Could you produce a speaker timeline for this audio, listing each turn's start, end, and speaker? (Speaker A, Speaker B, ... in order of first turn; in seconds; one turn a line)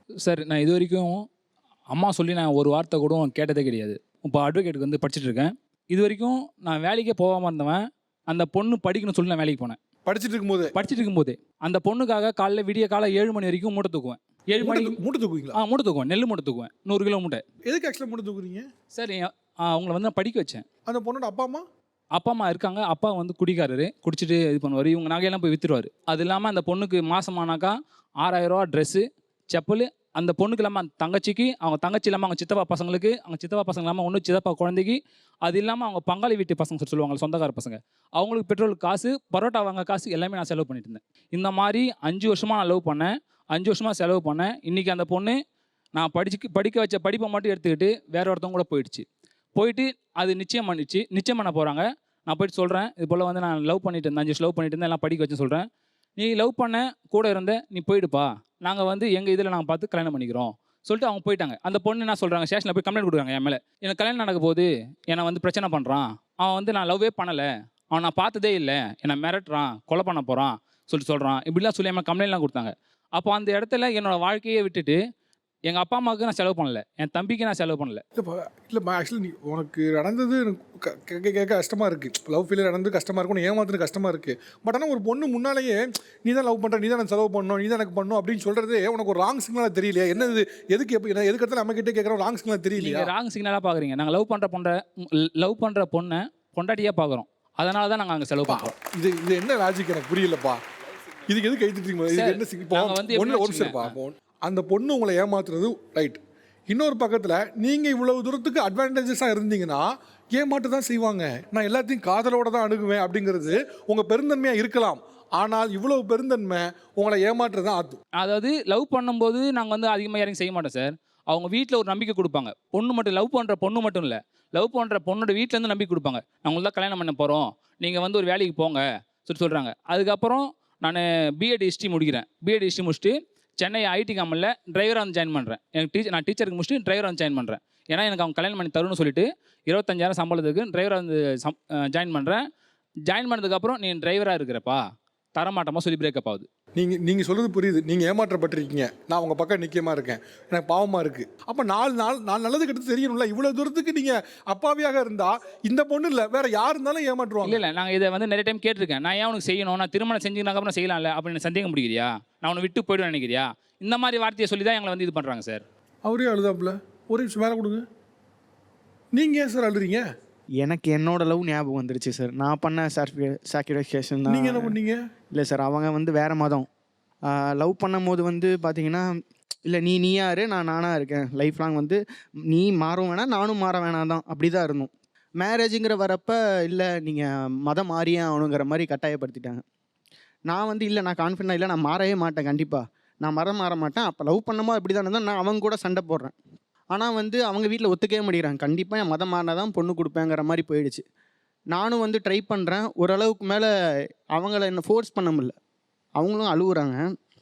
Speaker A: 0.2-1.2
Speaker A: 1.9-9.8
Speaker B: 10.1-10.7
Speaker A: 10.7-15.0
Speaker B: 14.6-15.6
Speaker A: 15.6-17.4
Speaker B: 17.7-18.7
Speaker A: 18.9-20.6
Speaker B: 20.9-21.6
Speaker A: 22.1-45.4
Speaker A: 46.0-55.6
Speaker A: 56.2-75.0
Speaker A: 75.7-78.0
Speaker B: 78.2-93.1
Speaker A: 92.8-98.7
Speaker B: 98.5-100.6
Speaker B: 101.3-118.0
Speaker A: 102.1-103.9
Speaker A: 118.2-142.4
Speaker A: 143.1-144.8
Speaker A: 145.3-146.5
Speaker B: 146.8-157.6
Speaker A: 157.4-165.6
Speaker B: 166.0-167.8
Speaker B: 169.1-170.1
Speaker C: 170.6-174.7
Speaker B: 174.3-175.0
Speaker C: 175.3-176.7
Speaker C: 177.3-179.1
Speaker C: 179.7-189.6
Speaker C: 190.5-196.3
Speaker C: 196.9-201.0
Speaker C: 201.7-203.7
Speaker C: 204.3-205.5
Speaker C: 206.2-207.0